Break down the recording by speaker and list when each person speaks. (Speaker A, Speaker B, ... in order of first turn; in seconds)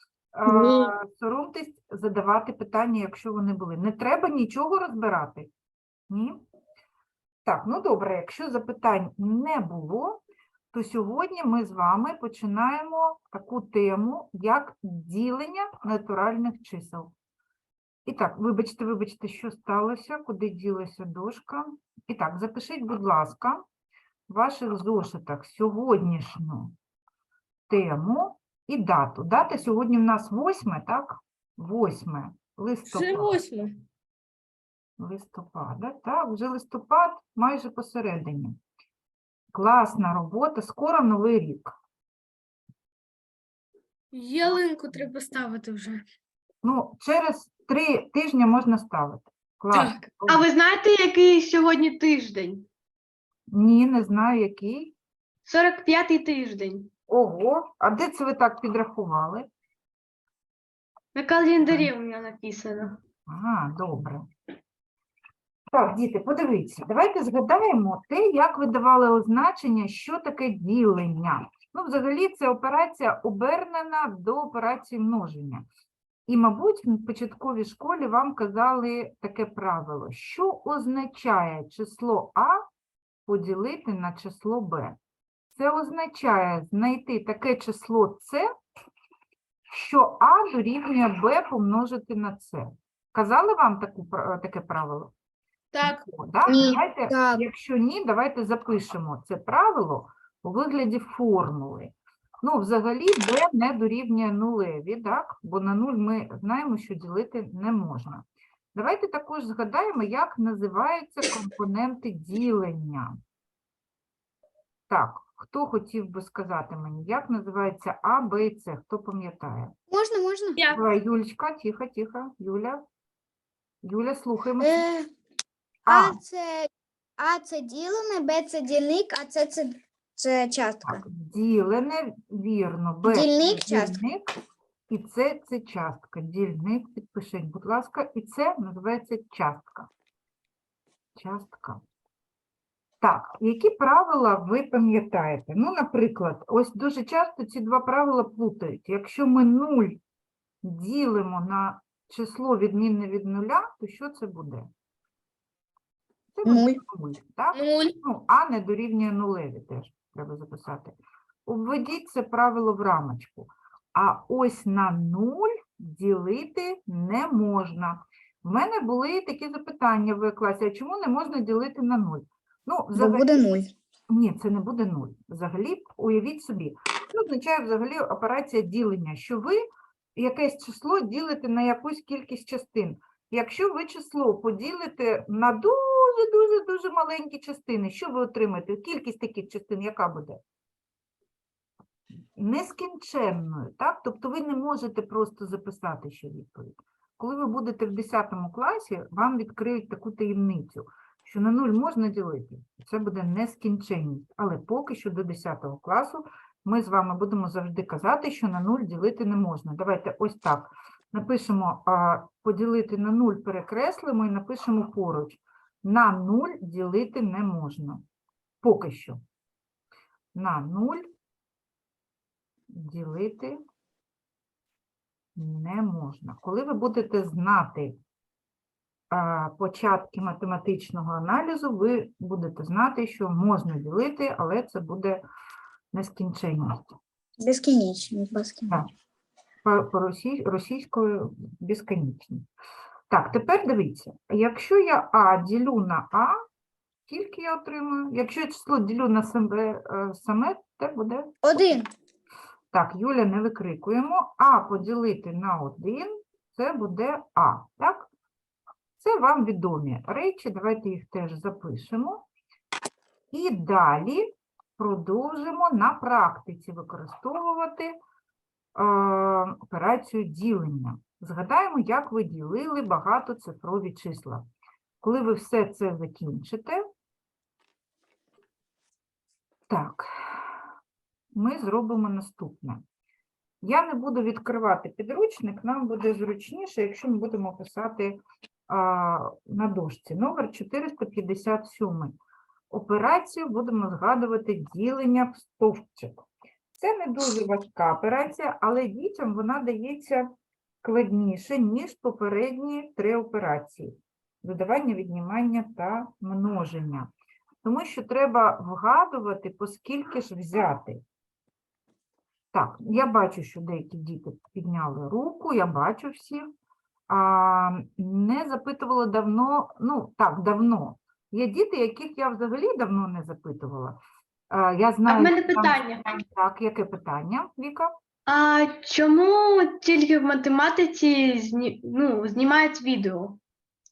Speaker A: 0.3-5.5, 6.1-6.4, 7.4-10.2, 10.7-17.1, 18.1-23.6, 24.3-26.7, 27.7-33.4, 35.0-38.6, 39.5-41.7, 46.6-50.5, 53.5-54.9, 57.1-59.5, 61.6-61.9, 63.3-64.3, 65.7-75.7, 76.3-82.6, 83.3-85.0, 85.5-88.5, 89.7-95.1, 95.8-113.2, 114.9-119.7, 120.7-122.8, 123.8-124.8, 125.8-126.2, 130.8-134.3, 134.9-139.9, 141.2-141.8, 143.0-150.0, 150.6-154.7, 156.3-173.4, 174.1-190.4, 192.3-218.0, 218.6-219.2, 220.3-221.1, 222.7-223.6, 225.3-227.9, 229.1-235.2, 235.9-236.9, 239.6-242.4, 243.1-246.4, 247.1-251.8, 252.7-258.1, 259.0-262.2, 263.3-268.0, 268.7-274.4, 275.0-276.8, 279.7-280.6, 281.3-282.8, 283.6-292.1, 292.7-296.2, 296.8-300.3, 300.8-307.1, 307.6-311.0, 312.5-316.5, 317.1-327.9
Speaker B: 0.5-0.9, 96.5-97.4, 119.9-120.7, 124.6-125.1, 125.9-131.0, 133.0-134.0, 156.4-156.8, 172.9-173.7, 237.4-238.8, 251.4-251.9
Speaker C: 32.9-33.7, 44.1-46.0, 95.7-96.0, 157.5-157.9
Speaker D: 49.7-52.7, 55.4-56.9, 61.1-63.0, 325.1-326.2, 328.3-333.4